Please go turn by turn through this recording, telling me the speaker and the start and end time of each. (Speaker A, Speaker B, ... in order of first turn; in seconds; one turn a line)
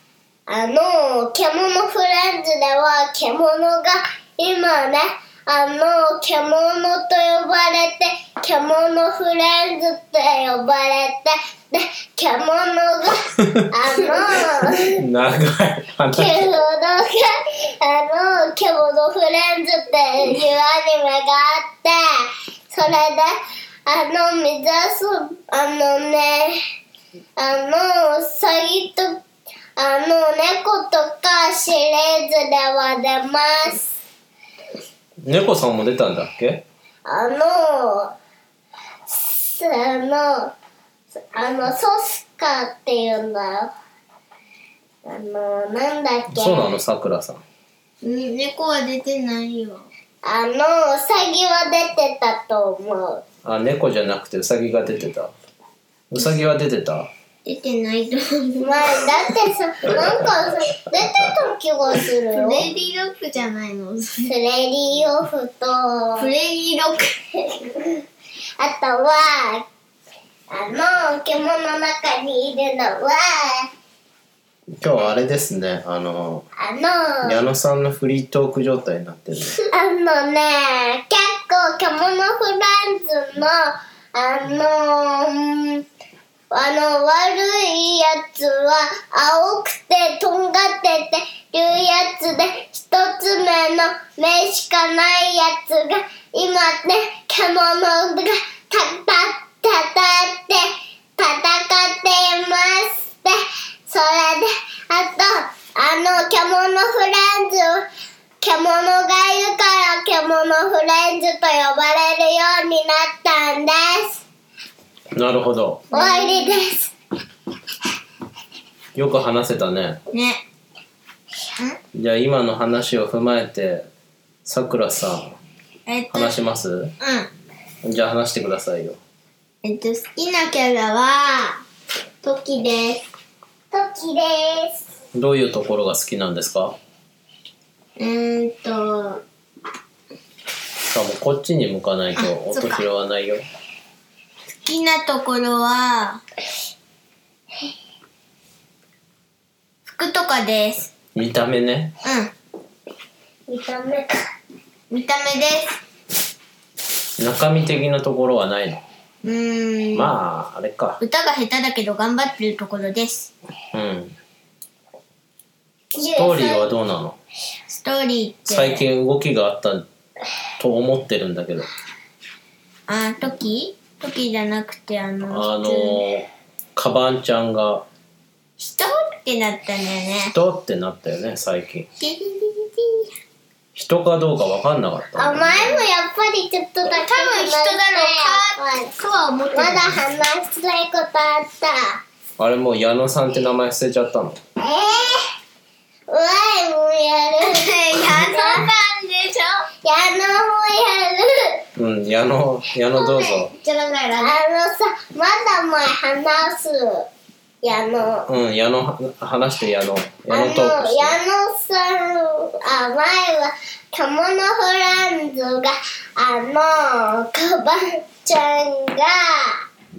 Speaker A: 0.5-15.0
Speaker B: 13.4-13.7
Speaker B: 14.7-16.6
Speaker A: 16.1-23.3
Speaker A: 23.9-26.6
Speaker A: 27.4-29.2
Speaker A: 29.8-33.9
Speaker B: 35.2-36.6
Speaker A: 37.1-38.1
Speaker A: 39.1-40.5
Speaker A: 41.3-43.7
Speaker A: 45.0-46.7
Speaker B: 46.3-47.4
Speaker C: 48.0-49.9
Speaker A: 50.2-53.2
Speaker B: 53.4-55.3
Speaker B: 56.1-57.1
Speaker C: 57.4-59.3
Speaker A: 58.6-62.7
Speaker C: 62.3-64.3
Speaker A: 64.3-66.3
Speaker C: 66.2-67.2
Speaker A: 67.4-68.0
Speaker A: 68.6-69.7
Speaker A: 70.5-73.7
Speaker B: 74.8-76.5
Speaker A: 76.6-77.4
Speaker B: 77.2-79.6
Speaker A: 79.7-85.8
Speaker A: 86.5-107.8
Speaker A: 108.4-114.2
Speaker B: 115.1-115.8
Speaker C: 115.9-116.6
Speaker A: 115.9-116.9
Speaker B: 118.9-120.0
Speaker C: 120.1-120.4
Speaker B: 121.9-123.8
Speaker B: 124.4-125.3
Speaker C: 125.8-126.4
Speaker B: 126.1-126.9
Speaker C: 127.0-127.3
Speaker B: 127.8-129.0
Speaker C: 129.6-131.6
Speaker C: 132.2-133.0
Speaker A: 133.7-134.8
Speaker B: 135.1-136.8
Speaker C: 138.0-139.2
Speaker B: 140.8-143.4
Speaker C: 142.2-142.8
Speaker C: 144.6-146.2
Speaker C: 149.8-150.9
Speaker B: 151.1-151.9
Speaker C: 152.0-152.3
Speaker A: 153.5-154.3
Speaker C: 154.9-155.7
Speaker B: 157.2-158.8
Speaker C: 159.2-160.1
Speaker B: 159.9-161.0
Speaker C: 161.0-163.3
Speaker B: 163.7-164.2
Speaker A: 165.9-166.7
Speaker B: 166.2-167.2
Speaker C: 167.7-168.8
Speaker B: 168.5-169.8
Speaker B: 170.6-171.7
Speaker C: 172.9-176.0
Speaker B: 175.3-177.8
Speaker C: 178.6-180.3
Speaker B: 180.3-181.9
Speaker C: 182.0-183.1
Speaker B: 183.7-185.8
Speaker A: 185.2-188.9
Speaker C: 186.8-190.0
Speaker A: 189.5-192.0
Speaker B: 192.4-194.4
Speaker A: 194.6-195.2
Speaker A: 196.1-198.7
Speaker C: 197.4-199.7
Speaker A: 199.8-201.6
Speaker B: 201.8-203.5
Speaker C: 202.9-204.4
Speaker A: 204.2-207.1
Speaker A: 207.6-208.3
Speaker B: 208.3-211.2
Speaker A: 210.3-219.6